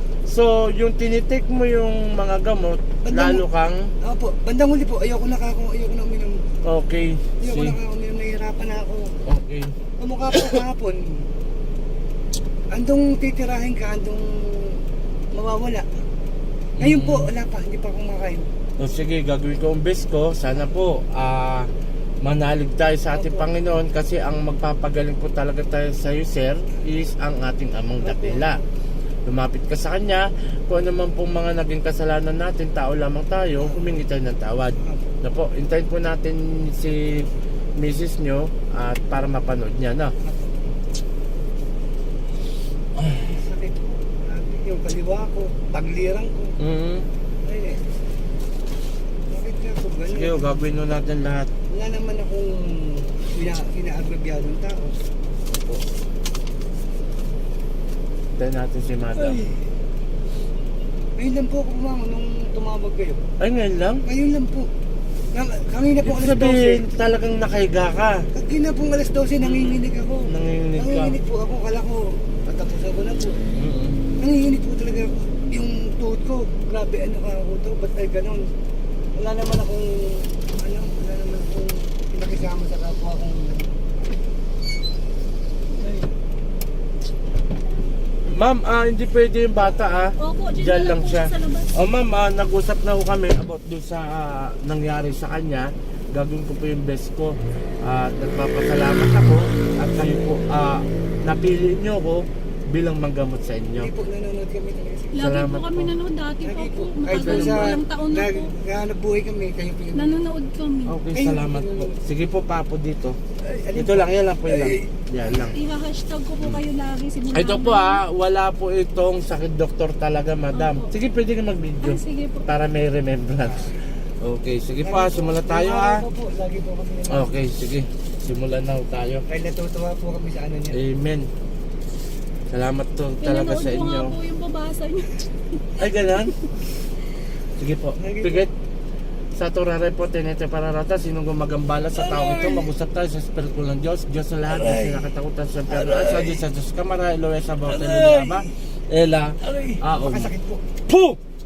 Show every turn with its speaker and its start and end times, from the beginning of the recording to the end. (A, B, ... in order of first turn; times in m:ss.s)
0:00.3-0:03.9 A
0:03.0-0:03.4 B
0:04.0-0:06.4 B
0:06.6-0:07.8 A
0:07.4-0:09.1 B
0:09.3-0:09.7 A
0:10.0-0:11.2 B
0:12.7-0:16.0 B
0:16.8-0:18.5 B
0:16.8-0:17.3 A
0:18.8-0:21.7 A
0:22.2-0:28.6 A
0:23.1-0:23.5 B
0:28.0-0:28.6 B
0:29.3-0:40.1 A
0:40.2-0:40.8 B
0:43.0-0:46.6 B
0:46.6-0:47.1 A
0:47.4-0:47.9 B
0:49.3-0:50.6 B
0:50.1-0:51.5 A
0:51.7-0:55.0 B
0:58.4-0:59.4 A
0:59.2-0:59.6 B
1:01.2-1:03.2 B
1:03.4-1:04.0 A
1:04.1-1:04.7 B
1:05.3-1:06.8 B
1:06.0-1:08.3 A
1:08.3-1:13.4 B
1:09.4-1:11.2 A
1:13.6-1:14.0 A
1:14.2-1:18.5 B
1:19.2-1:23.7 B
1:25.8-1:26.1 B
1:28.3-1:43.9 A
1:30.2-1:31.7 C
1:43.8-1:45.2 B
1:45.1-1:48.5 C
1:45.2-1:45.9 A
1:46.4-1:50.2 B
1:47.2-1:47.8 A
1:50.0-1:51.0 C
1:50.9-1:53.2 A
1:51.1-1:52.0 B
1:53.4-1:54.9 B
1:53.8-1:55.6 A
1:55.5-1:58.0 C
1:57.3-2:06.0 A
2:00.5-2:00.9 C
2:01.8-2:02.5 C
2:04.8-2:07.4 B
2:07.1-2:09.2 A
2:09.3-2:10.8 B
2:10.7-2:11.3 A
2:12.5-2:14.2 A
2:13.2-2:16.3 C
2:15.8-2:16.4 A
2:17.6-2:18.5 A
2:18.0-2:18.5 B
2:19.3-2:30.3 A
2:22.0-2:22.7 B
2:24.5-2:25.1 B
2:25.7-2:26.4 B
2:27.7-2:28.5 B
2:29.4-2:30.6 B
2:30.9-2:31.2 A